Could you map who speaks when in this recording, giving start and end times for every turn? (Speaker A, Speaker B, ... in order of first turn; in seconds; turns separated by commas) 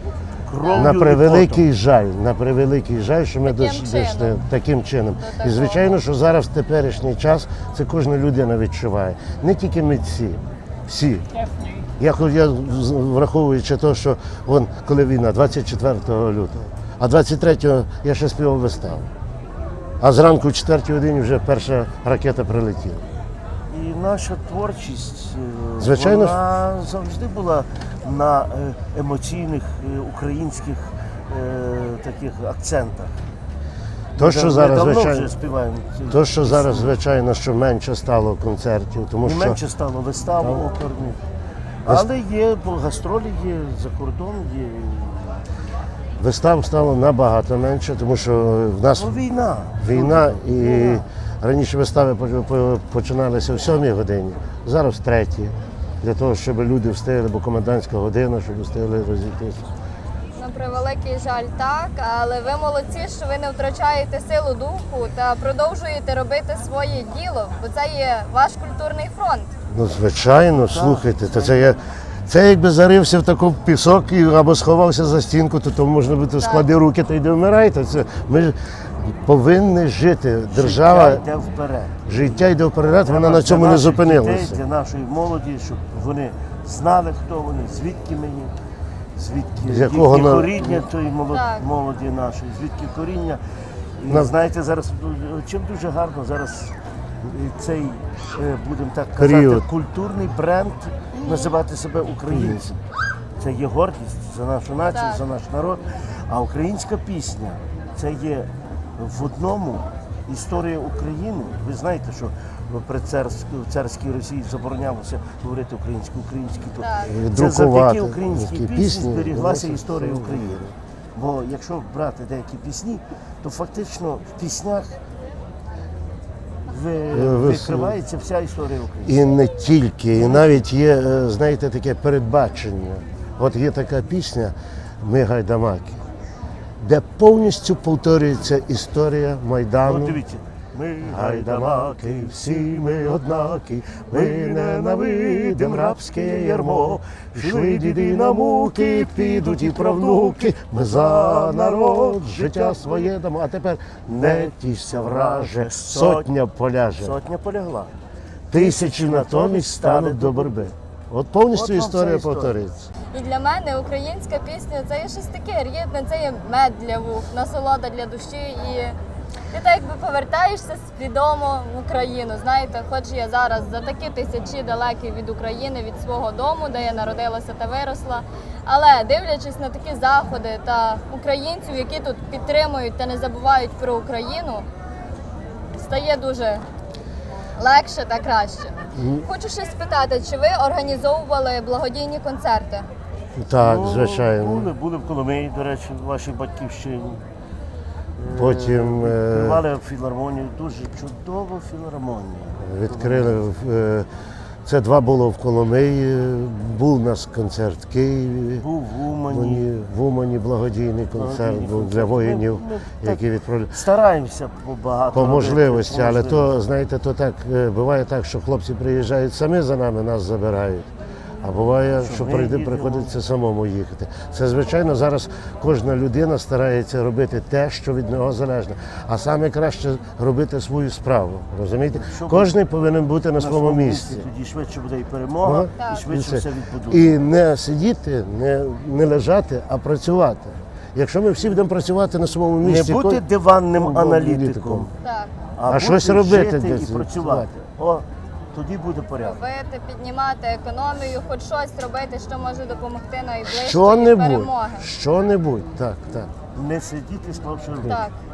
Speaker A: 0.5-1.7, Speaker B: 0.6-0.9, Speaker C: 0.7-11.3, Speaker B: 3.4-4.4, Speaker B: 5.2-6.0, Speaker C: 12.0-19.1, Speaker C: 20.0-23.1, Speaker A: 23.7-33.2, Speaker C: 25.8-26.4, Speaker C: 34.2-35.3, Speaker A: 34.2-37.0, Speaker C: 36.1-39.6, Speaker A: 39.2-41.2, Speaker C: 40.4-40.7, Speaker A: 41.8-45.4, Speaker C: 46.2-49.1, Speaker A: 49.0-51.0, Speaker C: 49.8-59.7, Speaker B: 60.4-69.5, Speaker C: 69.7-81.2, Speaker A: 70.6-71.8, Speaker B: 76.4-76.7, Speaker A: 80.5-82.5, Speaker C: 82.0-84.6, Speaker A: 83.0-88.5, Speaker A: 89.1-93.4, Speaker C: 89.7-90.8, Speaker B: 91.3-91.7, Speaker A: 94.0-102.8, Speaker C: 99.2-99.7, Speaker C: 102.3-102.7, Speaker A: 103.4-120.6, Speaker B: 104.9-105.2, Speaker B: 116.8-117.2, Speaker C: 117.0-120.7, Speaker A: 121.1-125.0, Speaker A: 126.7-129.2, Speaker C: 127.1-128.0, Speaker C: 129.0-136.0, Speaker A: 130.2-130.7, Speaker C: 136.8-140.2, Speaker A: 139.8-142.2, Speaker C: 141.0-157.2, Speaker A: 144.1-153.1, Speaker A: 154.1-156.3, Speaker A: 157.0-157.9, Speaker C: 158.5-162.9, Speaker A: 158.5-160.7, Speaker A: 161.5-162.5, Speaker B: 163.1-169.0, Speaker B: 169.5-184.7, Speaker B: 185.7-186.6, Speaker B: 187.6-192.9, Speaker C: 188.9-189.3, Speaker C: 193.3-194.7, Speaker A: 193.6-197.2, Speaker A: 198.2-203.4, Speaker C: 198.3-199.6, Speaker C: 202.6-204.1, Speaker C: 204.6-208.7, Speaker A: 208.6-209.7, Speaker C: 209.3-213.8, Speaker A: 211.1-216.5, Speaker C: 215.1-220.9, Speaker C: 221.4-234.3, Speaker A: 222.0-223.2, Speaker A: 231.9-232.5, Speaker A: 233.4-237.1, Speaker C: 235.4-243.2, Speaker B: 235.8-236.1, Speaker A: 242.6-244.9, Speaker C: 243.7-244.9, Speaker B: 245.0-245.3, Speaker A: 245.6-249.4, Speaker C: 245.7-247.5, Speaker B: 249.2-254.9, Speaker C: 253.4-256.3, Speaker A: 256.5-258.0, Speaker B: 257.8-258.2